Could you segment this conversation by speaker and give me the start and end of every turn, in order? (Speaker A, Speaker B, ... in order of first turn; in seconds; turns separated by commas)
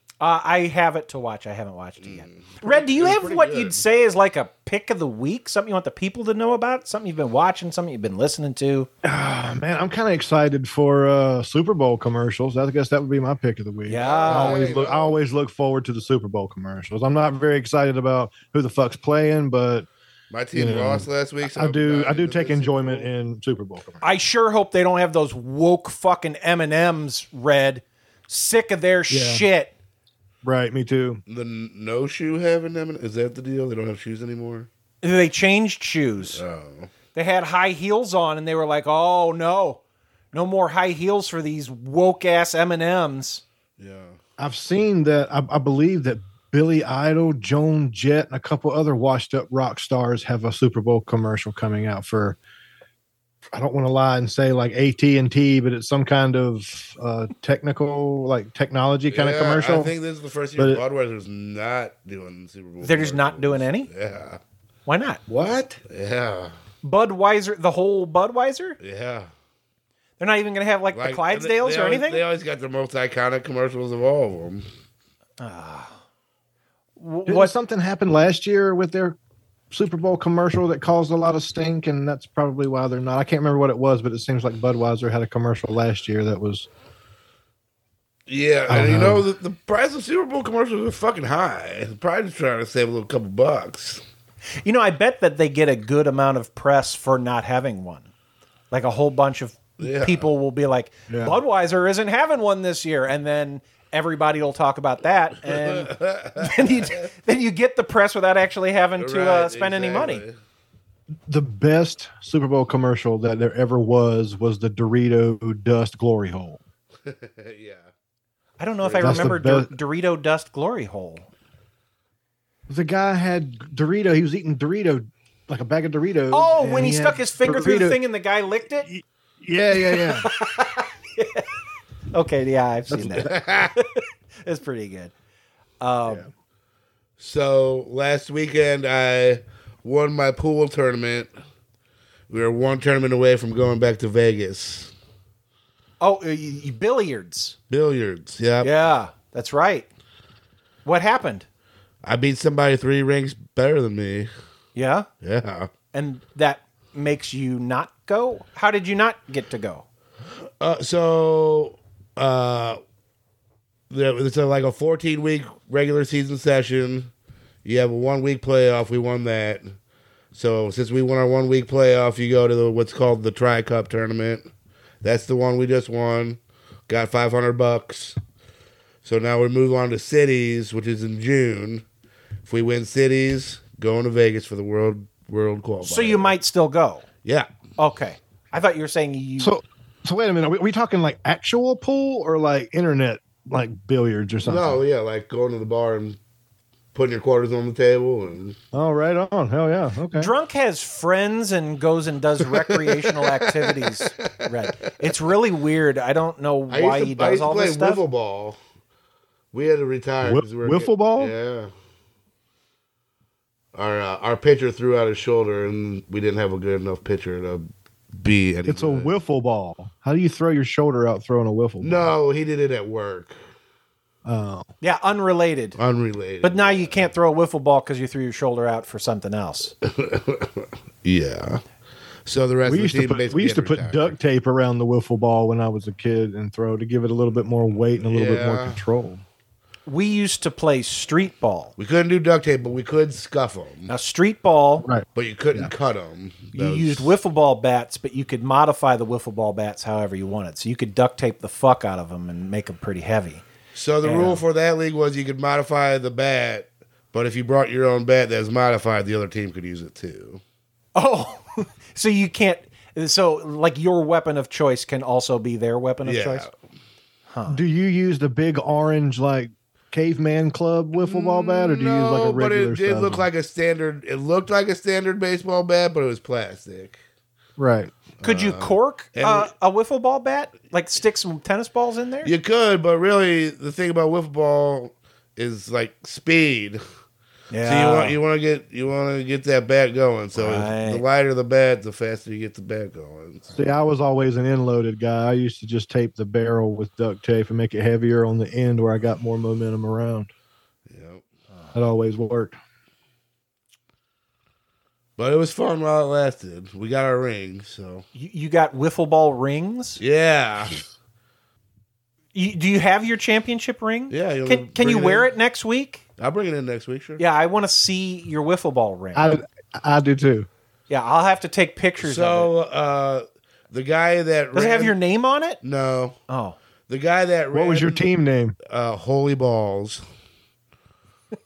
Speaker A: 0.2-8.9, Speaker B: 2.0-3.8, Speaker C: 9.0-19.9, Speaker A: 13.9-14.7, Speaker B: 14.0-15.2, Speaker B: 20.3-23.1, Speaker C: 20.5-24.0, Speaker A: 24.0-29.7, Speaker C: 29.1-29.4, Speaker C: 30.4-31.2, Speaker B: 31.3-34.7, Speaker A: 35.0-36.4, Speaker B: 36.3-36.9, Speaker A: 37.1-39.8, Speaker A: 40.3-43.4, Speaker B: 43.8-44.2, Speaker C: 44.4-52.4, Speaker C: 53.5-60.0, Speaker B: 59.1-64.4, Speaker C: 60.6-60.8, Speaker A: 62.8-63.9, Speaker A: 64.9-65.2, Speaker C: 65.3-65.7, Speaker B: 65.9-66.5, Speaker A: 66.8-68.8, Speaker B: 68.8-69.3, Speaker A: 70.2-72.2, Speaker B: 70.9-74.7, Speaker A: 75.4-76.0, Speaker A: 77.0-77.5, Speaker C: 77.3-79.2, Speaker C: 79.7-86.7, Speaker B: 88.3-94.0, Speaker C: 88.7-89.2, Speaker A: 94.6-98.1, Speaker A: 98.7-110.2, Speaker B: 99.8-100.3, Speaker C: 101.1-101.4, Speaker B: 105.6-107.0, Speaker B: 109.0-110.4, Speaker C: 111.3-116.6, Speaker B: 117.0-117.9, Speaker A: 118.6-121.3, Speaker B: 118.8-119.3, Speaker C: 119.0-119.7, Speaker C: 122.7-128.0, Speaker A: 126.3-128.9, Speaker C: 128.8-130.3, Speaker A: 129.8-131.5, Speaker A: 132.1-135.1, Speaker B: 133.1-133.7, Speaker A: 135.8-136.2, Speaker B: 137.2-141.3, Speaker B: 142.3-144.9, Speaker A: 146.0-147.6, Speaker B: 147.7-148.7, Speaker A: 148.6-149.9, Speaker A: 150.8-151.5, Speaker B: 152.0-154.3, Speaker A: 154.8-155.1, Speaker B: 155.2-155.7, Speaker A: 155.9-159.8, Speaker B: 160.6-162.8, Speaker B: 163.9-167.1, Speaker B: 167.7-169.8, Speaker B: 170.3-174.5, Speaker B: 175.0-178.2, Speaker B: 179.0-181.8, Speaker B: 182.5-186.3, Speaker A: 185.8-187.1, Speaker A: 187.8-189.5, Speaker C: 189.4-194.8, Speaker B: 194.4-196.2, Speaker B: 196.9-198.6, Speaker C: 198.7-200.3, Speaker A: 200.2-208.0, Speaker B: 202.8-203.9, Speaker B: 206.7-208.6, Speaker B: 209.5-211.7, Speaker C: 210.2-211.3, Speaker B: 213.8-219.1, Speaker C: 218.7-222.1, Speaker B: 221.8-223.4, Speaker C: 224.2-224.7, Speaker A: 224.8-225.8, Speaker B: 225.8-227.0, Speaker A: 226.4-229.7, Speaker B: 229.8-231.6, Speaker B: 232.3-234.2, Speaker C: 232.7-239.2, Speaker B: 238.0-238.8, Speaker A: 239.9-241.7, Speaker B: 241.8-243.9, Speaker A: 243.9-244.9, Speaker C: 244.8-245.7, Speaker B: 245.2-247.1, Speaker A: 246.5-253.4, Speaker B: 253.8-260.4, Speaker A: 254.0-254.4, Speaker A: 260.9-266.5, Speaker B: 266.1-266.5, Speaker A: 267.3-267.6, Speaker C: 267.5-273.3, Speaker B: 271.0-277.0, Speaker C: 277.6-277.9, Speaker B: 278.2-279.5, Speaker A: 278.2-282.3, Speaker B: 282.2-286.8, Speaker A: 287.5-288.2, Speaker B: 287.6-293.6, Speaker A: 290.4-291.0, Speaker C: 293.5-300.3, Speaker B: 300.9-301.2, Speaker C: 301.7-302.6, Speaker B: 305.2-308.1, Speaker A: 308.1-310.0, Speaker B: 310.0-310.8, Speaker A: 312.3-316.0, Speaker B: 314.1-315.3, Speaker B: 316.2-317.2, Speaker A: 317.2-319.4, Speaker C: 319.1-320.5, Speaker A: 320.9-322.5, Speaker B: 322.0-325.0, Speaker A: 324.5-325.6, Speaker B: 325.6-326.1, Speaker A: 326.3-326.6, Speaker B: 326.9-328.1, Speaker C: 327.5-328.6, Speaker B: 328.7-330.0